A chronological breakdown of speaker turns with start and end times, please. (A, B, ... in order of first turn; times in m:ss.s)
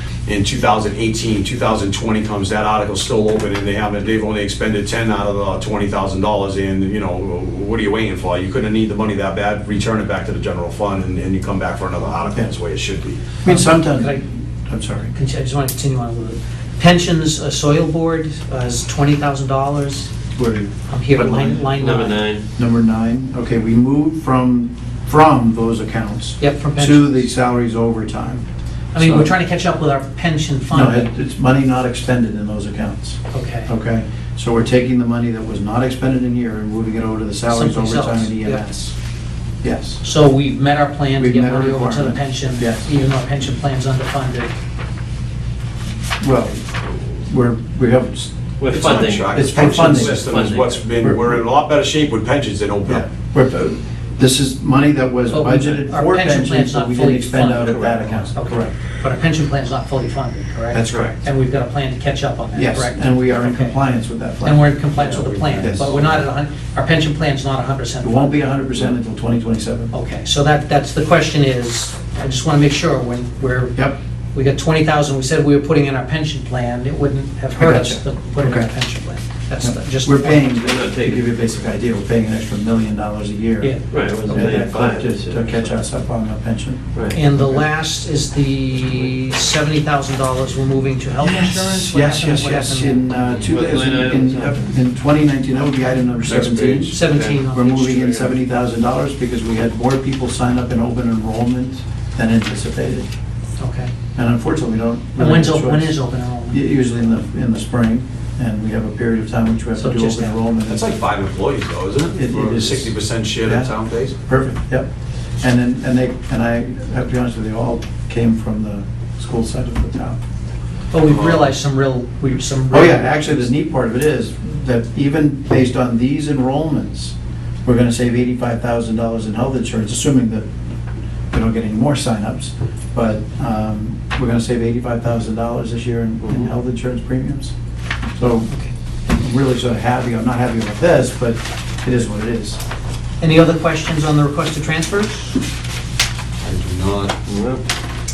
0:00.3-0:13.4 A
0:13.4-0:15.1 B
0:13.4-0:14.2 C
0:15.1-0:20.1 C
0:20.4-0:21.7 B
0:20.9-0:22.3 C
0:21.8-0:22.4 D
0:22.6-0:28.4 B
0:26.4-0:27.2 C
0:28.9-0:31.1 C
0:29.0-0:29.3 B
0:30.7-0:39.0 B
0:33.3-0:33.7 C
0:37.5-0:38.6 C
0:39.6-0:40.0 B
0:40.0-0:44.5 C
0:41.2-0:42.9 B
0:46.2-0:50.2 B
0:48.6-0:50.8 D
0:48.7-0:53.1 A
0:51.0-0:51.4 B
0:52.9-0:58.7 B
0:55.3-1:03.8 C
0:57.6-0:58.3 D
1:00.7-1:01.2 B
1:02.6-1:04.7 B
1:04.4-1:08.5 C
1:05.0-1:05.7 A
1:05.6-1:06.1 B
1:08.0-1:09.9 B
1:09.9-1:20.5 C
1:17.6-1:18.7 B
1:19.6-1:27.6 B
1:20.6-1:21.3 D
1:23.6-1:24.7 C
1:23.9-1:25.8 D
1:27.1-1:33.2 C
1:31.2-1:31.8 D
1:31.8-1:43.1 B
1:33.4-1:34.6 D
1:36.3-1:36.9 A
1:36.4-1:38.3 D
1:36.9-1:37.8 C
1:43.6-1:43.9 C
1:44.2-1:46.0 B
1:45.2-1:46.6 C
1:46.5-1:50.8 B
1:49.8-1:50.4 C
1:50.7-1:54.2 A
1:52.1-1:53.7 B
1:54.3-1:54.9 B
1:55.4-2:00.2 B
2:00.9-2:03.5 C
2:01.1-2:01.5 A
2:02.7-2:10.4 B
2:11.3-2:17.5 B
2:18.2-2:18.5 B
2:19.1-2:22.6 B
2:23.2-2:25.4 C
2:26.4-2:27.2 A
2:27.3-2:27.6 D